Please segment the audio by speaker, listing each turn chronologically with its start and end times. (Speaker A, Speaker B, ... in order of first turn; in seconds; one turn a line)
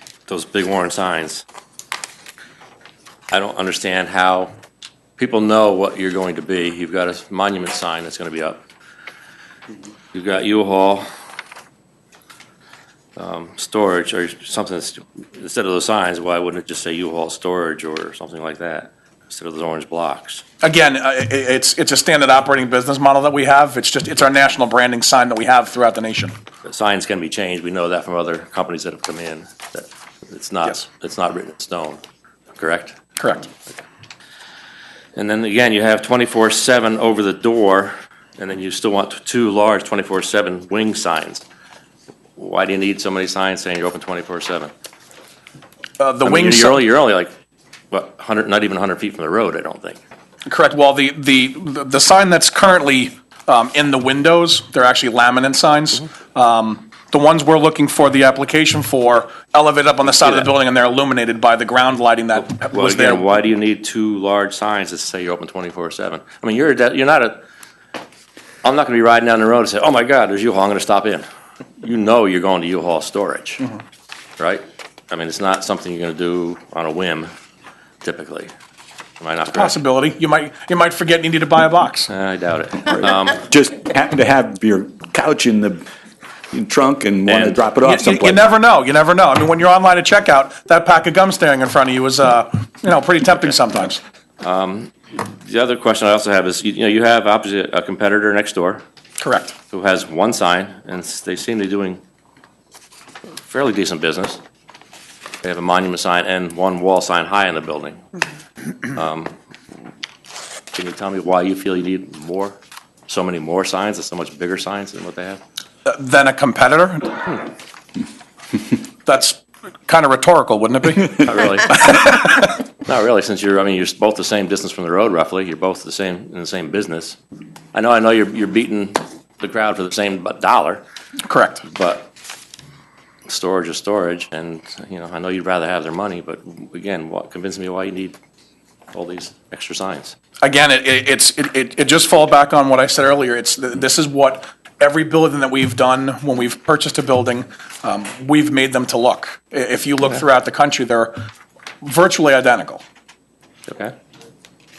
Speaker A: 0.3-1.4
Speaker A: 3.3-4.5
Speaker A: 5.2-8.6
Speaker A: 10.1-11.1
Speaker A: 13.2-20.4
Speaker B: 20.6-26.3
Speaker A: 26.6-32.0
Speaker A: 32.5-33.0
Speaker B: 33.2-33.5
Speaker A: 35.1-41.4
Speaker A: 42.4-44.7
Speaker B: 46.0-46.8
Speaker A: 46.2-47.3
Speaker A: 47.9-50.0
Speaker B: 50.5-63.2
Speaker A: 60.1-60.5
Speaker A: 62.5-67.4
Speaker A: 68.6-71.2
Speaker A: 71.8-73.7
Speaker A: 74.4-77.3
Speaker A: 78.0-78.5
Speaker A: 79.2-79.8
Speaker B: 79.5-82.1
Speaker A: 82.1-83.4
Speaker C: 83.4-85.8
Speaker C: 86.5-88.4
Speaker A: 87.3-87.6
Speaker B: 87.8-94.0
Speaker A: 94.4-98.8
Speaker B: 99.2-99.5
Speaker A: 99.7-102.0
Speaker A: 103.4-104.4
Speaker A: 105.4-108.0
Speaker A: 108.9-109.3
Speaker A: 110.7-112.5
Speaker A: 113.1-115.4
Speaker B: 115.8-117.2
Speaker B: 119.0-122.2
Speaker A: 121.2-127.2
Speaker A: 127.7-130.8
Speaker B: 131.2-131.6
Speaker A: 131.6-132.1
Speaker A: 133.3-138.2
Speaker A: 138.9-140.1
Speaker B: 140.4-151.1
Speaker B: 151.8-152.8
Speaker A: 153.7-153.9